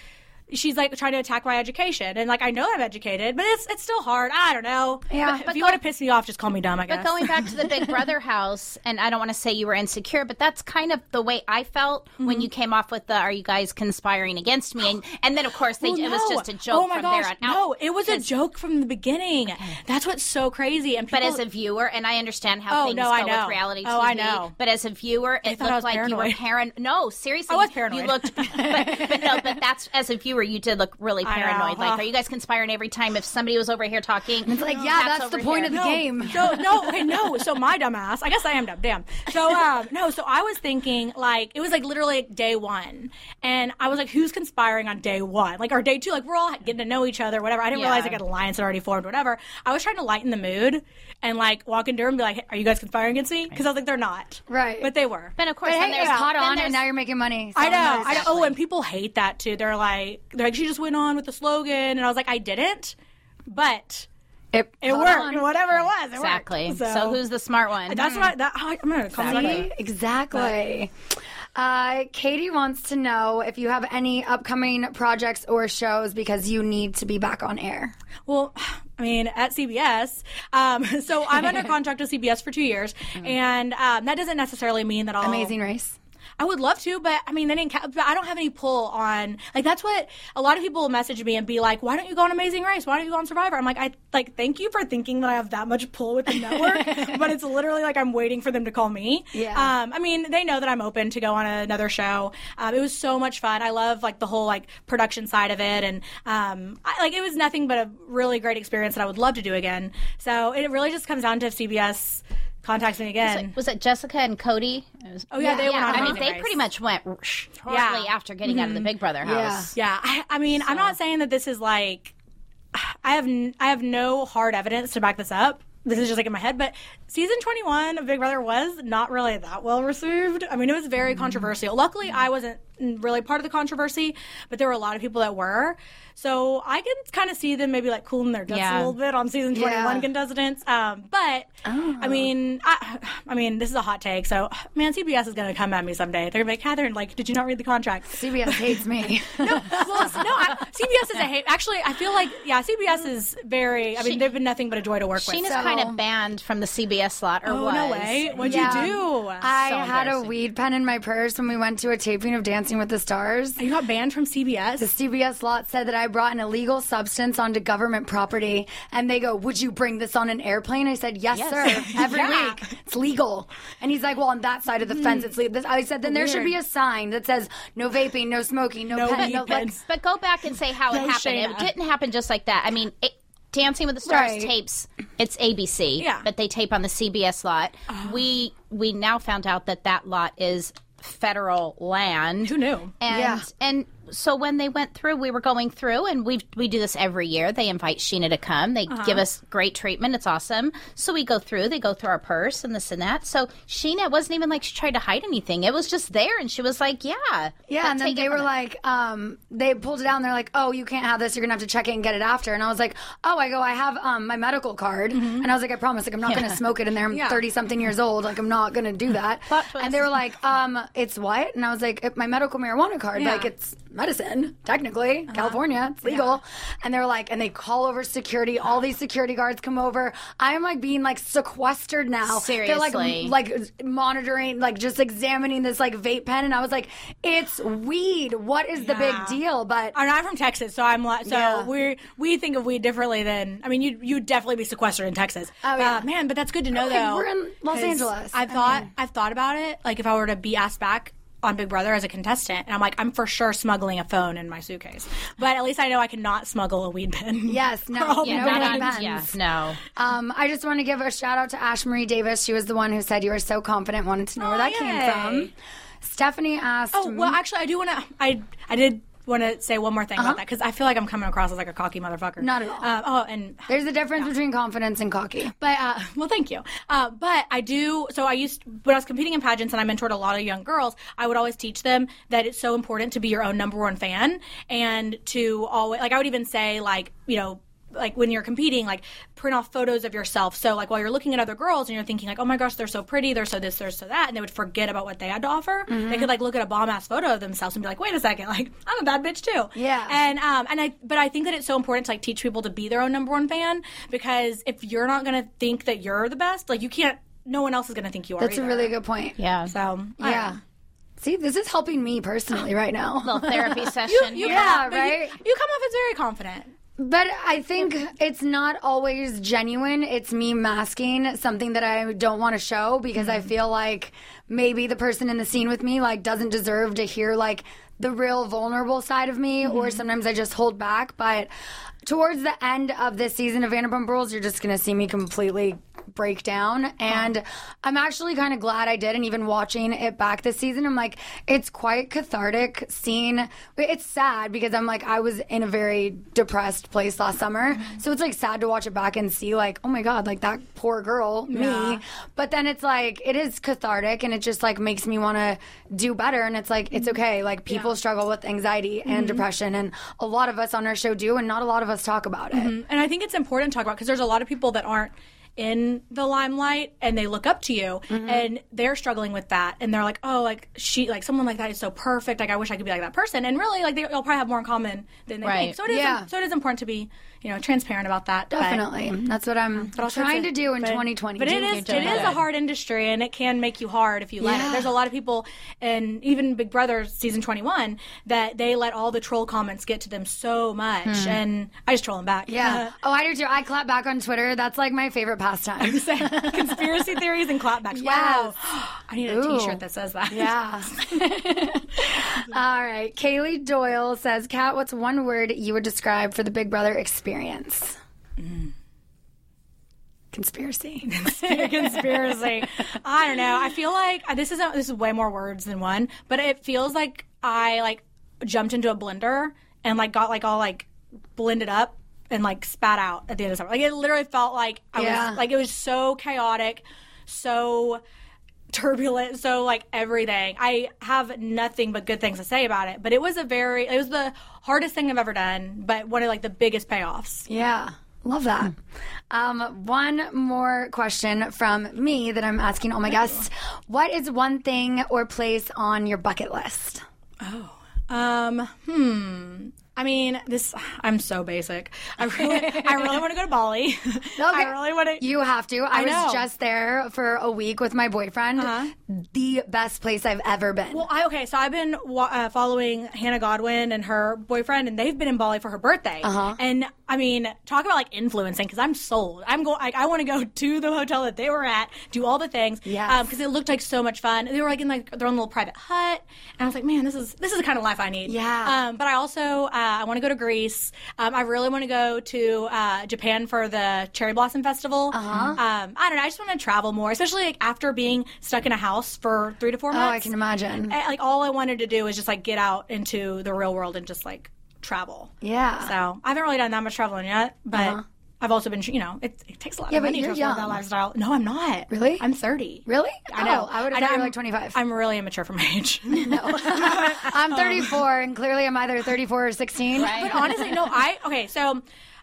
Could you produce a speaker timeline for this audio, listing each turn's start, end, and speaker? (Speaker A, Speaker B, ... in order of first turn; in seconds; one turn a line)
Speaker A: 0.5-7.9
Speaker B: 5.1-5.5
Speaker C: 5.4-5.8
Speaker C: 6.9-18.3
Speaker A: 12.2-12.5
Speaker A: 15.8-21.4
Speaker C: 21.1-35.9
Speaker A: 22.7-24.5
Speaker A: 25.5-26.4
Speaker A: 27.5-29.5
Speaker A: 31.2-32.1
Speaker B: 34.5-36.6
Speaker A: 35.7-55.4
Speaker C: 47.7-48.2
Speaker B: 54.5-54.9
Speaker C: 55.4-56.8
Speaker B: 55.6-58.3
Speaker A: 55.9-56.3
Speaker A: 57.6-63.0
Speaker C: 57.6-58.5
Speaker A: 63.5-64.1
Speaker B: 64.5-65.5
Speaker A: 64.8-67.2
Speaker C: 65.7-68.3
Speaker A: 67.9-69.7
Speaker C: 69.2-69.7
Speaker B: 69.2-70.9
Speaker B: 71.5-77.9
Speaker A: 78.3-85.5
Speaker B: 85.2-86.0
Speaker A: 86.4-113.5
Speaker B: 99.3-99.7
Speaker C: 113.2-119.7
Speaker A: 115.3-116.6
Speaker B: 115.4-116.2
Speaker A: 117.7-118.9
Speaker B: 119.2-119.7
Speaker A: 119.8-122.1
Speaker C: 120.7-120.9
Speaker A: 122.7-155.6
Speaker C: 138.5-138.9
Speaker B: 139.5-140.1
Speaker B: 141.7-142.3
Speaker B: 148.1-150.3
Speaker C: 155.2-159.0
Speaker B: 155.4-156.0
Speaker A: 157.5-159.5
Speaker B: 158.4-163.6
Speaker C: 159.6-160.3
Speaker A: 163.6-164.9
Speaker B: 164.8-179.7
Speaker C: 171.3-172.3
Speaker A: 171.7-172.6
Speaker A: 175.0-175.3
Speaker A: 176.0-176.6
Speaker A: 178.9-179.8
Speaker C: 179.2-208.5
Speaker A: 180.9-181.7
Speaker B: 184.1-184.5
Speaker A: 186.0-186.3
Speaker A: 187.9-188.2
Speaker A: 192.4-192.9
Speaker B: 193.1-193.5
Speaker A: 198.9-199.2
Speaker B: 207.7-240.0
Speaker A: 215.1-215.5
Speaker C: 216.3-216.6
Speaker A: 217.1-217.4
Speaker C: 219.5-220.2
Speaker A: 223.2-223.5
Speaker A: 225.3-226.3
Speaker C: 232.3-233.3
Speaker A: 238.8-239.4
Speaker A: 239.9-259.1
Speaker B: 241.2-241.7
Speaker B: 245.6-246.1
Speaker B: 246.7-248.9
Speaker B: 257.5-259.4
Speaker C: 258.2-259.8
Speaker B: 260.0-267.4
Speaker A: 264.4-265.5
Speaker A: 266.9-274.3
Speaker B: 270.2-270.4
Speaker B: 272.4-272.9
Speaker B: 273.7-275.5
Speaker A: 275.6-308.9
Speaker B: 295.9-296.3
Speaker B: 299.8-300.2
Speaker B: 308.4-309.4
Speaker C: 309.4-309.7
Speaker A: 309.7-310.6
Speaker B: 310.2-310.6
Speaker B: 311.2-315.4
Speaker C: 313.2-314.6
Speaker A: 314.1-316.7
Speaker B: 317.0-331.5
Speaker A: 329.6-330.0
Speaker B: 332.1-362.7
Speaker A: 351.5-352.0
Speaker A: 359.1-359.4
Speaker A: 362.5-378.9
Speaker B: 368.1-368.5
Speaker C: 375.4-375.8
Speaker B: 375.9-376.3
Speaker B: 378.5-382.4
Speaker A: 379.9-392.9
Speaker C: 381.7-382.4
Speaker B: 384.4-385.0
Speaker B: 391.1-391.4
Speaker B: 392.5-397.1
Speaker A: 395.8-400.6
Speaker B: 397.9-398.6
Speaker B: 399.3-408.0
Speaker A: 408.4-408.7
Speaker B: 410.3-412.7
Speaker A: 411.1-428.0
Speaker B: 424.9-425.4
Speaker A: 428.7-437.5
Speaker B: 437.5-438.8
Speaker B: 439.3-447.0
Speaker A: 447.4-455.3
Speaker B: 452.4-453.2
Speaker B: 454.4-461.1
Speaker A: 455.9-456.4
Speaker A: 458.6-458.9
Speaker A: 460.9-490.3
Speaker B: 466.2-466.6
Speaker B: 472.9-473.3
Speaker B: 478.3-478.8
Speaker B: 485.1-485.6
Speaker B: 489.9-490.9
Speaker A: 490.9-508.0
Speaker B: 495.4-495.9
Speaker B: 497.7-498.0
Speaker B: 499.9-500.8
Speaker B: 501.9-502.2
Speaker B: 502.9-504.8
Speaker B: 506.1-510.9
Speaker A: 510.0-511.8
Speaker C: 510.0-510.3